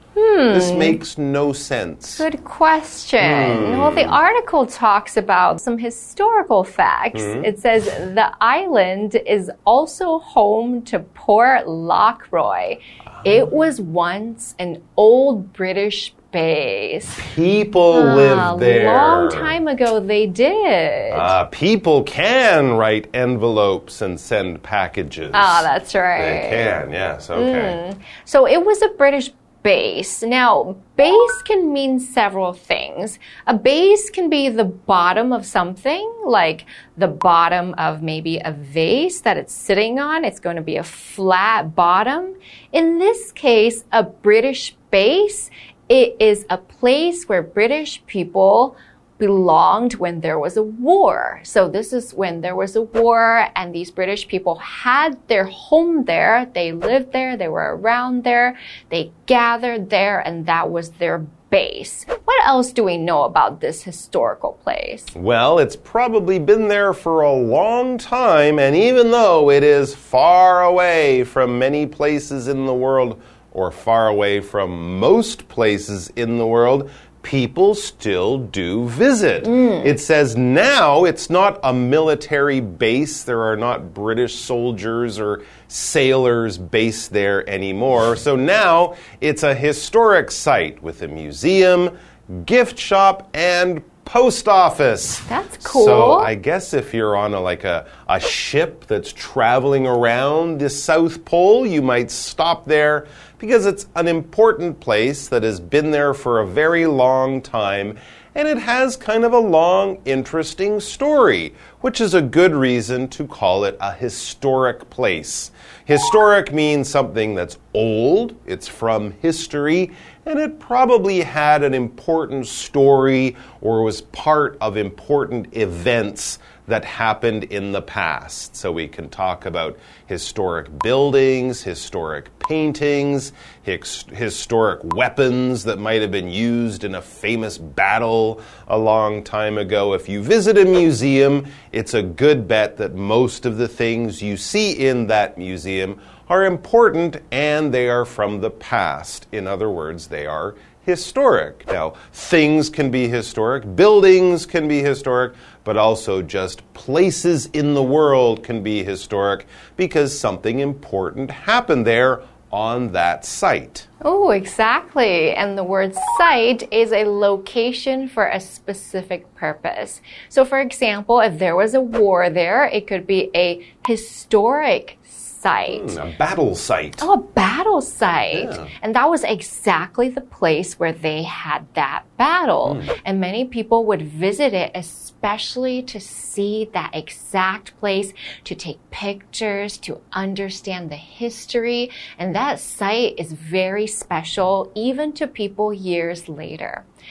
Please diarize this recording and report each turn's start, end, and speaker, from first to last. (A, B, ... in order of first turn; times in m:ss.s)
0:00.2-0:01.0 A
0:00.5-0:02.2 B
0:02.2-0:17.2 A
0:03.2-0:04.2 B
0:07.1-0:07.5 B
0:17.2-0:19.6 B
0:17.9-0:21.3 A
0:21.1-0:27.8 B
0:25.3-0:26.7 A
0:27.3-1:05.1 A
1:05.1-2:43.8 B
1:35.2-1:36.3 A
2:44.0-2:56.0 A
2:55.6-2:57.1 B
2:57.0-3:16.8 A
2:58.3-2:58.7 B
3:02.6-3:02.9 B